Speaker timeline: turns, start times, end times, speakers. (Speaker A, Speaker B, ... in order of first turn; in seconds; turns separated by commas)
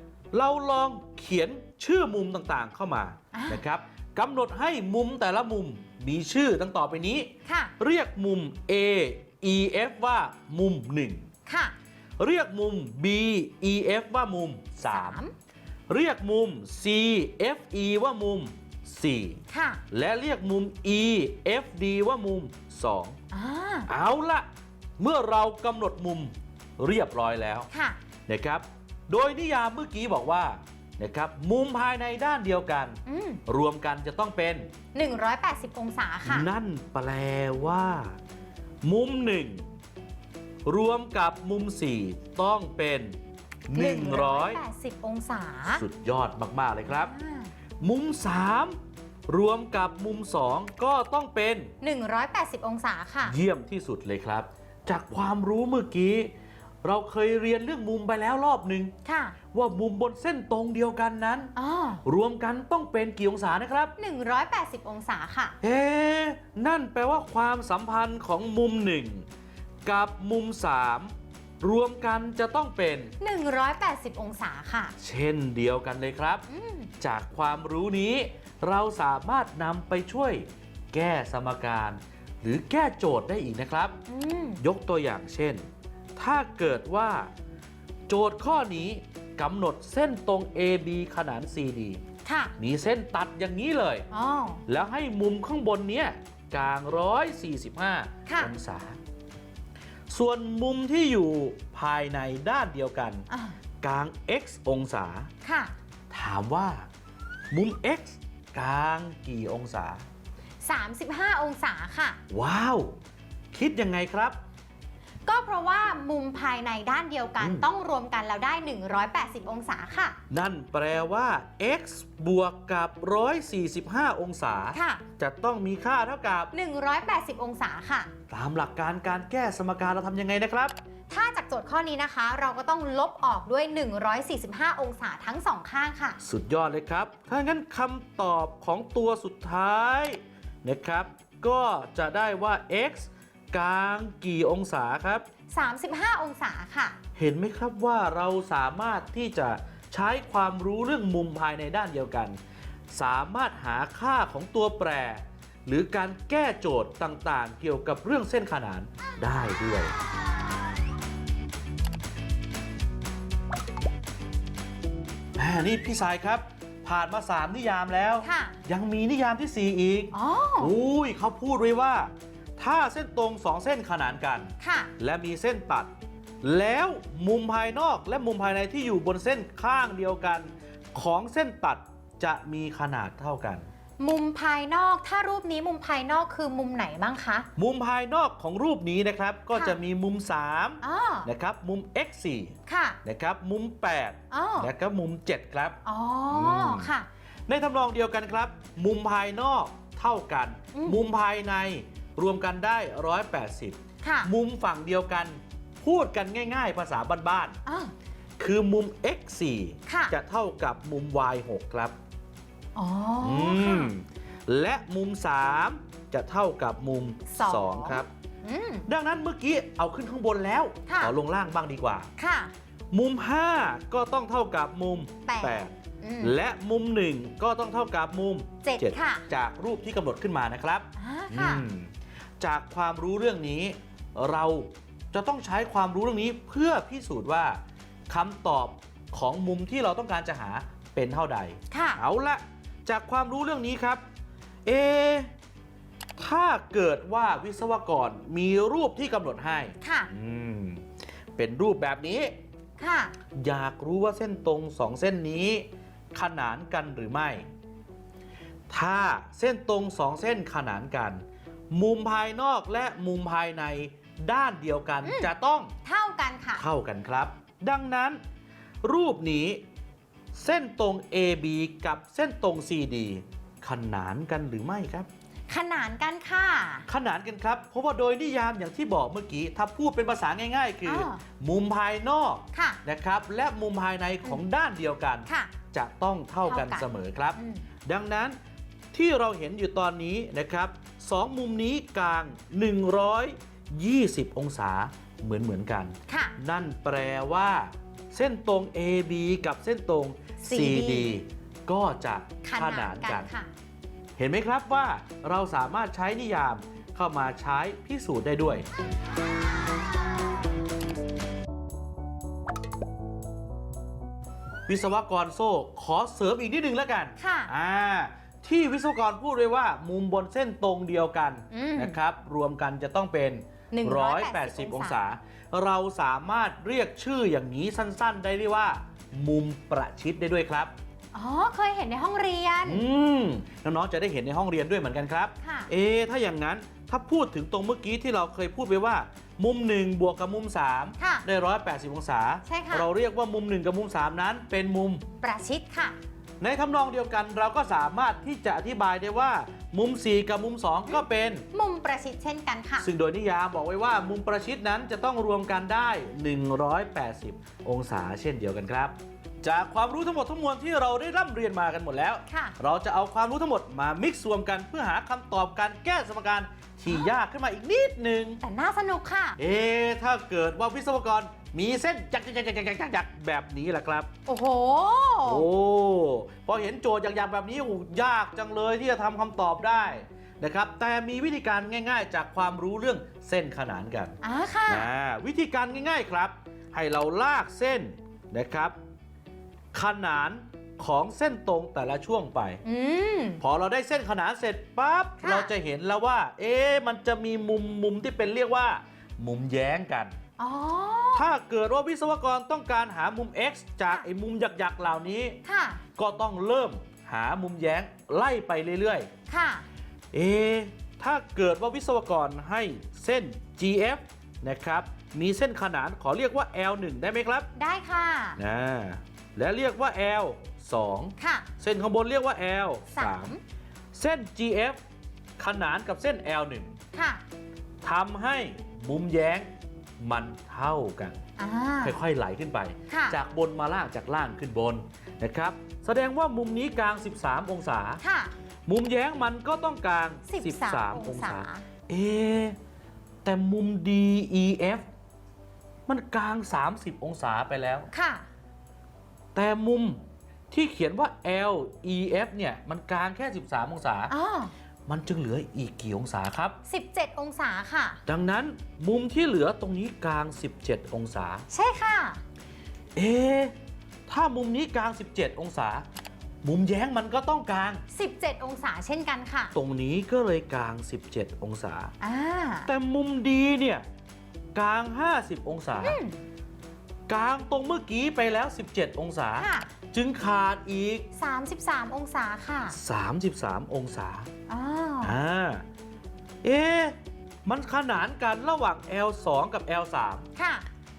Speaker A: 0.3-11.2, Speaker B: 3.3-3.6, Speaker B: 7.5-7.7, Speaker B: 11.5-11.8, Speaker A: 12.2-15.2, Speaker B: 14.8-15.3, Speaker A: 15.9-23.2, Speaker B: 19.5-19.8, Speaker B: 23.3-23.9, Speaker A: 23.9-24.5, Speaker A: 25.0-27.7, Speaker B: 27.7-28.0, Speaker A: 28.3-34.7, Speaker B: 33.1-33.4, Speaker B: 34.9-36.5, Speaker A: 36.3-38.2, Speaker A: 38.8-39.6, Speaker A: 40.7-43.2, Speaker A: 43.7-44.6, Speaker B: 43.7-45.8, Speaker A: 45.7-47.1, Speaker B: 46.9-47.5, Speaker A: 47.8-51.7, Speaker B: 51.8-53.4, Speaker A: 53.2-56.3, Speaker A: 56.8-58.9, Speaker B: 59.0-59.4, Speaker A: 59.5-61.5, Speaker B: 61.6-62.0, Speaker A: 62.0-63.9, Speaker B: 64.0-65.6, Speaker A: 65.6-69.2, Speaker A: 69.9-73.1, Speaker B: 73.2-74.9, Speaker A: 75.0-76.5, Speaker B: 76.5-76.9, Speaker A: 77.0-84.0, Speaker B: 84.1-84.6, Speaker A: 84.6-85.6, Speaker A: 86.2-87.3, Speaker A: 88.1-92.0, Speaker B: 92.2-92.5, Speaker A: 92.6-94.1, Speaker B: 94.1-94.6, Speaker A: 94.7-99.0, Speaker A: 100.1-103.3, Speaker B: 103.3-103.6, Speaker A: 103.8-105.3, Speaker B: 105.4-105.7, Speaker A: 106.1-106.9, Speaker A: 107.5-110.0, Speaker B: 110.6-112.2, Speaker A: 112.3-113.0, Speaker A: 113.5-114.4, Speaker B: 115.3-120.2, Speaker A: 117.4-117.7, Speaker A: 120.3-126.5, Speaker B: 124.7-125.0, Speaker B: 126.5-128.1, Speaker A: 128.3-130.8, Speaker B: 131.1-136.2, Speaker A: 136.2-145.2, Speaker B: 145.5-147.0, Speaker A: 147.2-152.4, Speaker A: 152.9-159.9, Speaker A: 165.4-175.9, Speaker B: 168.2-168.6, Speaker B: 170.1-170.7, Speaker B: 174.6-174.9, Speaker A: 176.4-183.7, Speaker B: 184.0-187.5, Speaker A: 187.6-196.9, Speaker B: 190.8-191.3, Speaker B: 192.7-193.0, Speaker B: 194.3-194.7, Speaker B: 195.8-197.1, Speaker A: 197.5-207.6, Speaker B: 200.7-201.0, Speaker B: 204.0-204.3, Speaker B: 207.7-207.9, Speaker A: 208.4-211.9, Speaker B: 209.9-210.1, Speaker B: 212.8-213.9, Speaker A: 213.2-218.1, Speaker B: 217.3-218.8, Speaker A: 218.9-222.1, Speaker B: 220.9-221.1, Speaker B: 222.2-222.5, Speaker A: 222.9-231.9, Speaker B: 225.3-226.3, Speaker B: 228.6-229.2, Speaker B: 231.0-231.7, Speaker A: 232.4-244.0, Speaker B: 241.7-242.0, Speaker A: 244.7-245.3, Speaker A: 246.2-250.8, Speaker B: 249.8-250.1, Speaker A: 251.4-252.3, Speaker B: 252.8-253.1, Speaker A: 253.3-257.5, Speaker A: 258.7-265.7, Speaker B: 265.0-265.3, Speaker B: 265.9-266.6, Speaker A: 266.6-268.2, Speaker A: 268.8-269.6, Speaker A: 270.3-275.1, Speaker B: 275.5-276.9, Speaker A: 276.9-288.4, Speaker B: 280.9-281.2, Speaker B: 282.5-282.8, Speaker B: 285.3-285.5, Speaker B: 286.5-287.6, Speaker A: 288.9-303.3, Speaker B: 296.1-296.4, Speaker B: 300.4-301.1, Speaker B: 302.4-303.5, Speaker A: 304.2-308.7, Speaker A: 314.7-330.7, Speaker B: 317.2-317.5, Speaker B: 321.5-322.0, Speaker B: 323.7-325.0, Speaker B: 331.1-332.8, Speaker A: 332.6-345.0, Speaker B: 335.4-335.7, Speaker B: 341.0-341.2, Speaker B: 342.5-342.9, Speaker B: 345.2-346.0, Speaker A: 346.4-351.5, Speaker B: 351.5-352.9, Speaker A: 352.8-368.4, Speaker B: 362.3-362.6, Speaker B: 368.4-369.4, Speaker A: 369.4-374.1, Speaker B: 374.3-375.4, Speaker A: 375.2-384.2, Speaker B: 384.2-384.9, Speaker A: 384.7-388.8, Speaker A: 389.7-392.6, Speaker B: 392.6-393.4, Speaker A: 393.4-400.1, Speaker B: 395.2-395.5, Speaker B: 400.4-401.2, Speaker A: 401.1-405.4, Speaker B: 405.4-405.8, Speaker A: 406.0-409.1, Speaker B: 409.3-409.7, Speaker A: 410.1-417.5, Speaker B: 417.6-418.4, Speaker A: 418.4-423.4, Speaker B: 421.2-421.5, Speaker B: 422.9-423.4, Speaker A: 423.9-424.8, Speaker A: 425.4-426.8, Speaker B: 426.9-427.2, Speaker A: 427.8-429.5, Speaker A: 430.0-431.2, Speaker B: 431.4-432.0, Speaker A: 431.8-438.0, Speaker B: 432.9-433.2, Speaker B: 438.0-438.3, Speaker A: 438.7-442.6, Speaker B: 440.3-441.6, Speaker A: 443.2-444.9, Speaker A: 445.9-447.9, Speaker B: 447.9-448.3, Speaker A: 449.4-454.1, Speaker B: 454.1-454.5, Speaker A: 454.9-456.6, Speaker B: 456.7-458.0, Speaker A: 458.1-461.5, Speaker B: 461.5-462.2, Speaker A: 463.0-463.5, Speaker A: 464.1-465.9, Speaker A: 466.4-467.8, Speaker B: 467.9-469.5, Speaker A: 469.6-471.9, Speaker B: 472.0-472.7, Speaker A: 472.7-473.9, Speaker A: 474.6-476.0, Speaker B: 475.8-476.2, Speaker A: 477.1-481.1, Speaker B: 479.4-479.7, Speaker B: 481.2-482.8, Speaker A: 482.7-484.3, Speaker B: 484.5-485.1, Speaker A: 485.0-485.6, Speaker A: 486.4-490.3, Speaker B: 490.4-490.7